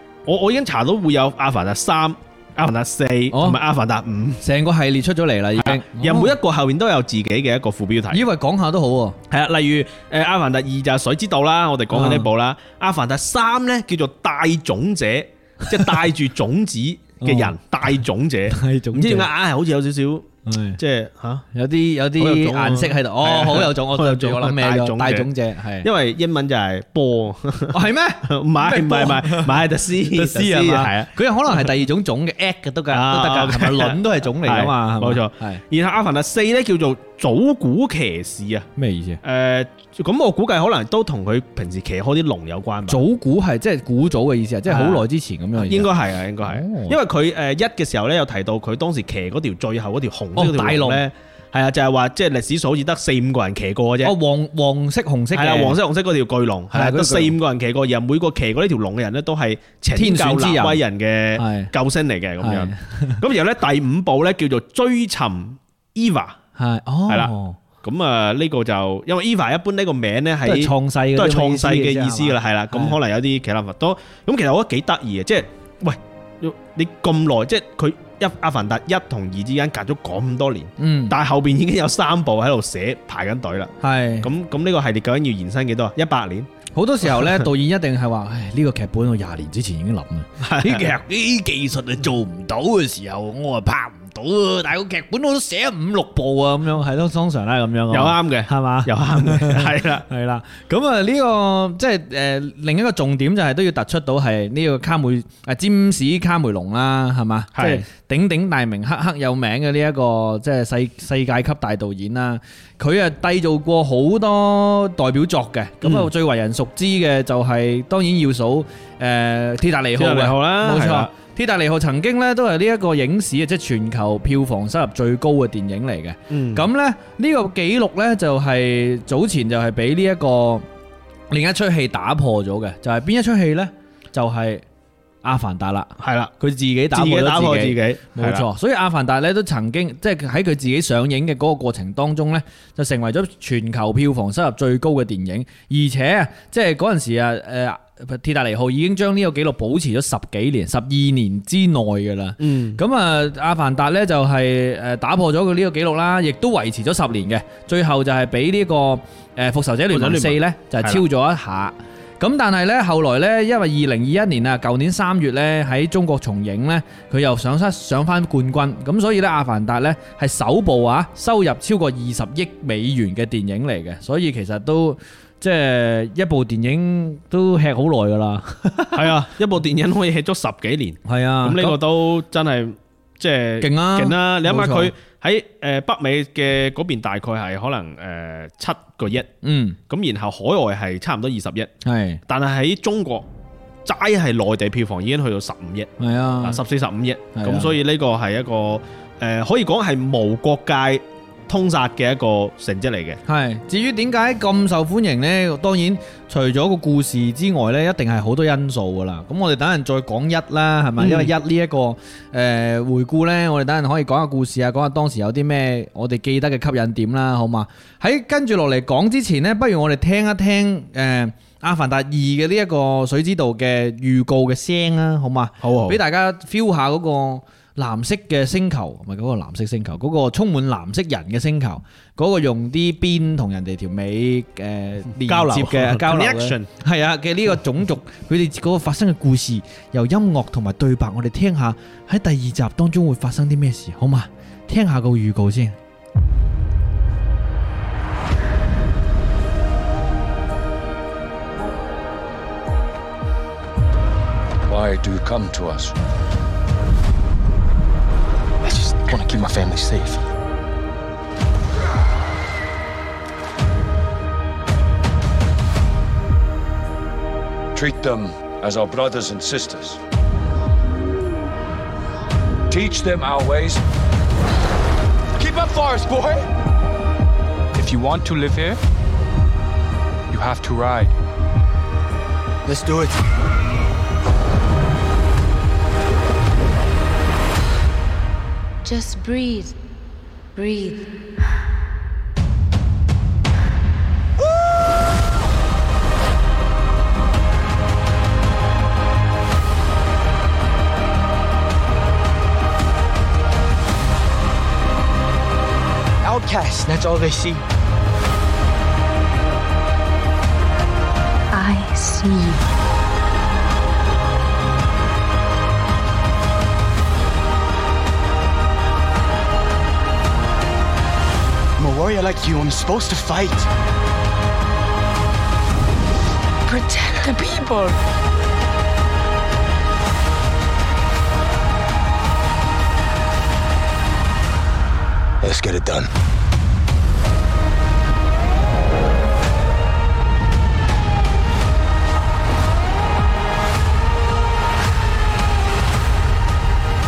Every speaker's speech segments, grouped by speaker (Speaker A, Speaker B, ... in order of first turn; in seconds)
Speaker A: 0.3-4.4, 5.6-8.2, 9.3-21.4, 22.2-25.3, 25.8-31.7, 32.9-38.7, 39.2-43.0, 44.7-45.0, 45.6-54.1, 55.3-66.4, 67.1-86.5, 90.4-90.9, 97.9-100.0, 107.5-107.8, 115.8-116.1, 120.0-121.1, 126.3-126.7, 136.0-136.3, 136.9-138.4, 152.4-152.8, 159.9-161.0, 178.9-189.3, 189.9-191.7, 192.3-193.3, 193.8-195.9, 196.4-203.2, 211.0-211.3, 225.6-226.0, 235.2-236.7
Speaker B: 3.3-3.6, 4.4-6.4, 8.1-9.2, 11.9-12.3, 17.2-17.6, 18.5-19.3, 20.4-20.8, 21.5-25.9, 27.7-35.6, 38.8-39.2, 42.9-45.9, 46.4-47.0, 50.4-51.0, 54.0-55.8, 56.7-57.3, 59.9-60.8, 61.4-61.7, 62.4-63.2, 66.6-67.6, 70.4-73.0, 80.8-81.1, 83.8-84.3, 86.7-130.6, 131.3-134.6, 135.2-179.1, 181.1-181.8, 183.6-184.9, 189.4-189.8, 191.8-192.2, 196.0-196.6, 197.3-197.7, 203.3-245.8
Speaker C: 254.7-255.9, 267.7-270.0, 272.7-273.8, 275.4-276.5, 277.7-278.8, 280.3-281.1
Speaker D: 258.6-260.2, 282.6-283.2, 306.2-307.6, 321.8-323.7, 335.4-336.1
Speaker E: 288.8-289.8, 290.6-291.1, 311.5-312.6, 326.7-328.0